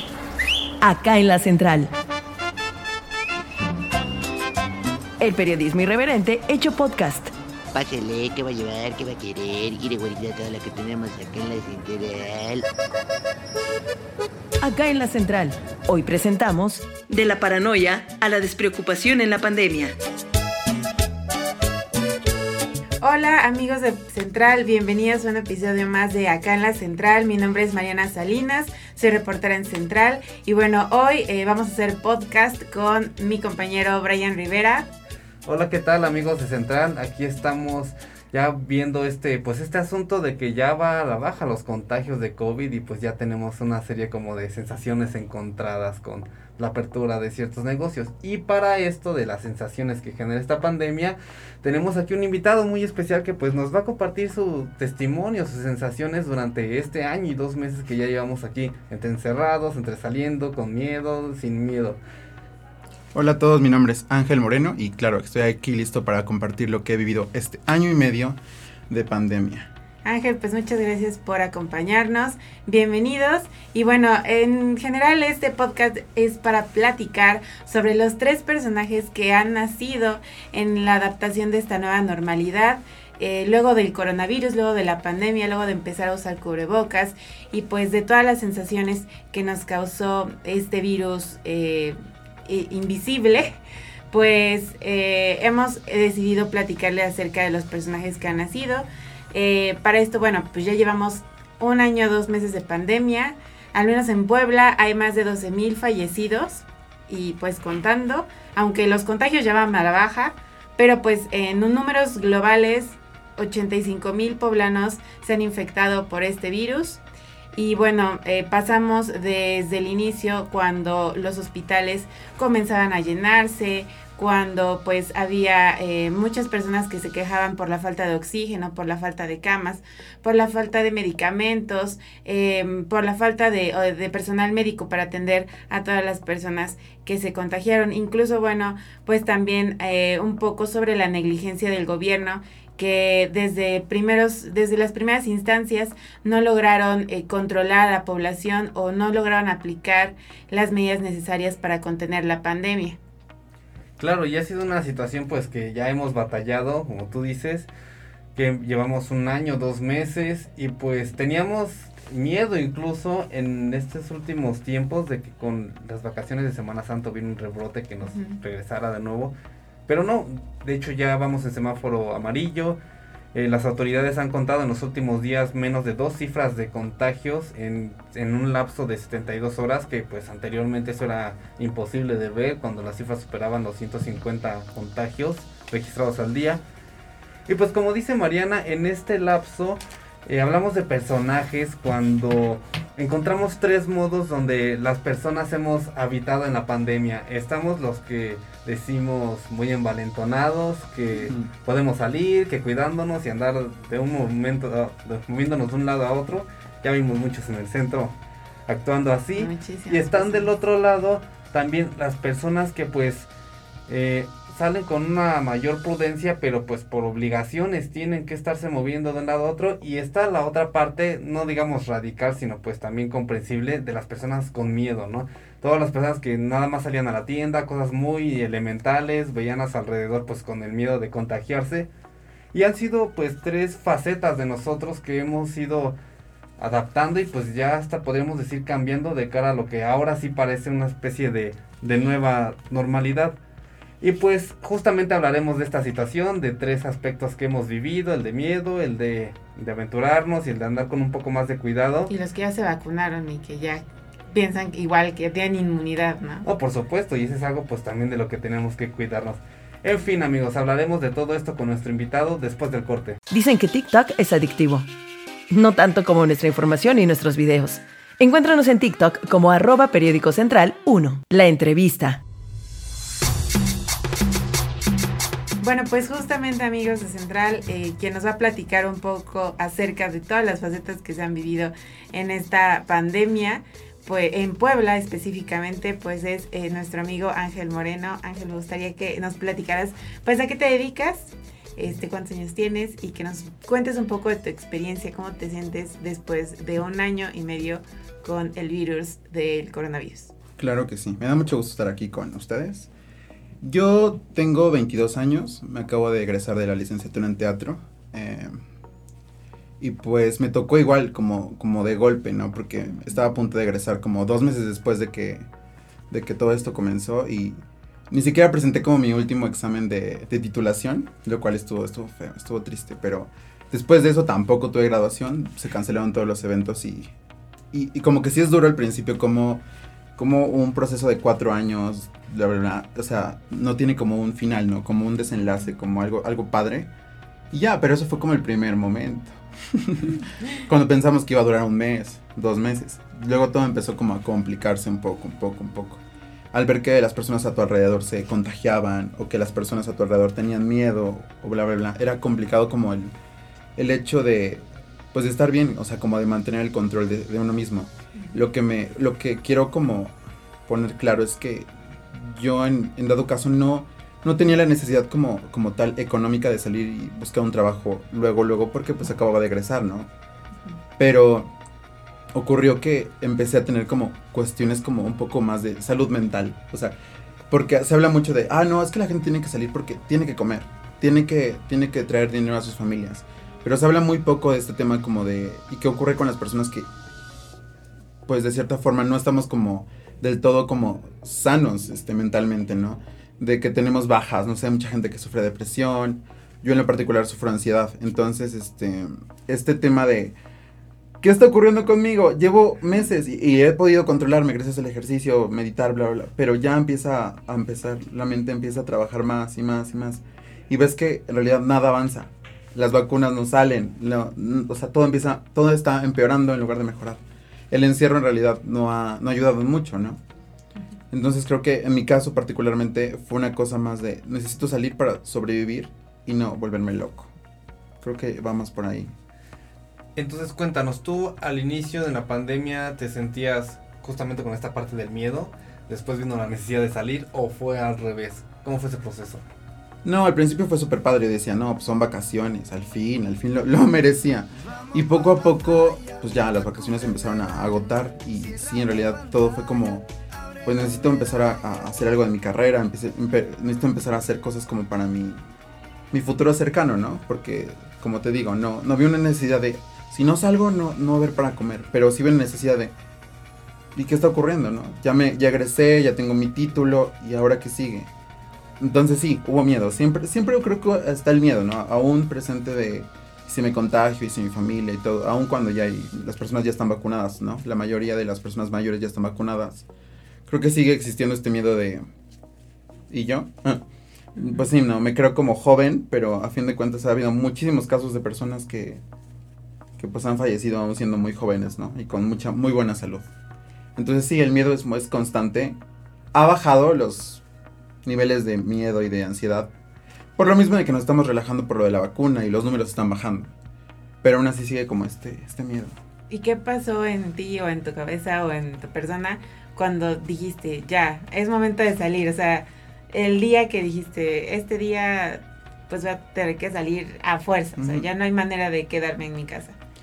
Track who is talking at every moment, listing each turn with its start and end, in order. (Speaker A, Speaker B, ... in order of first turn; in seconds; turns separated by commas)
Speaker A: 0.8-1.9, Speaker A: 5.2-7.3, Speaker B: 7.7-12.7, Speaker A: 14.6-20.0, Speaker C: 23.0-34.9, Speaker D: 35.5-62.0, Speaker E: 63.1-69.7, Speaker C: 70.0-93.6, Speaker C: 94.1-117.0, Speaker C: 117.5-153.0, Speaker D: 154.0-157.7, Speaker D: 158.3-169.3, Speaker C: 168.1-168.4, Speaker D: 169.9-172.8, Speaker D: 173.3-186.6, Speaker D: 187.5-208.2, Speaker E: 201.2-201.5, Speaker D: 208.7-213.3, Speaker C: 209.4-210.5, Speaker D: 213.9-231.9, Speaker D: 232.5-236.0, Speaker D: 236.6-243.4, Speaker D: 244.0-252.1, Speaker C: 252.1-256.5, Speaker D: 256.4-263.2, Speaker A: 263.3-264.9, Speaker A: 265.5-272.2, Speaker C: 275.6-300.3, Speaker E: 300.6-302.9, Speaker E: 303.6-308.6, Speaker E: 309.8-315.5, Speaker E: 316.1-327.1, Speaker E: 327.7-329.6, Speaker E: 330.2-336.9, Speaker E: 337.5-346.0, Speaker E: 346.5-353.1, Speaker E: 353.8-370.1, Speaker E: 371.0-371.5, Speaker E: 372.3-376.9, Speaker E: 377.5-386.9, Speaker E: 388.3-400.4, Speaker E: 401.2-420.2, Speaker E: 421.1-427.3, Speaker E: 428.0-429.1, Speaker D: 430.2-439.4, Speaker E: 440.1-450.1, Speaker E: 450.6-455.4, Speaker E: 456.1-462.9, Speaker E: 463.9-468.1, Speaker E: 468.8-479.9, Speaker E: 480.5-482.1, Speaker E: 483.1-483.8, Speaker E: 484.4-489.0, Speaker E: 490.0-493.2, Speaker E: 494.0-495.8, Speaker E: 496.3-497.4, Speaker E: 498.0-499.7, Speaker E: 500.4-503.5, Speaker E: 504.2-506.0, Speaker C: 506.3-519.8, Speaker E: 517.8-518.1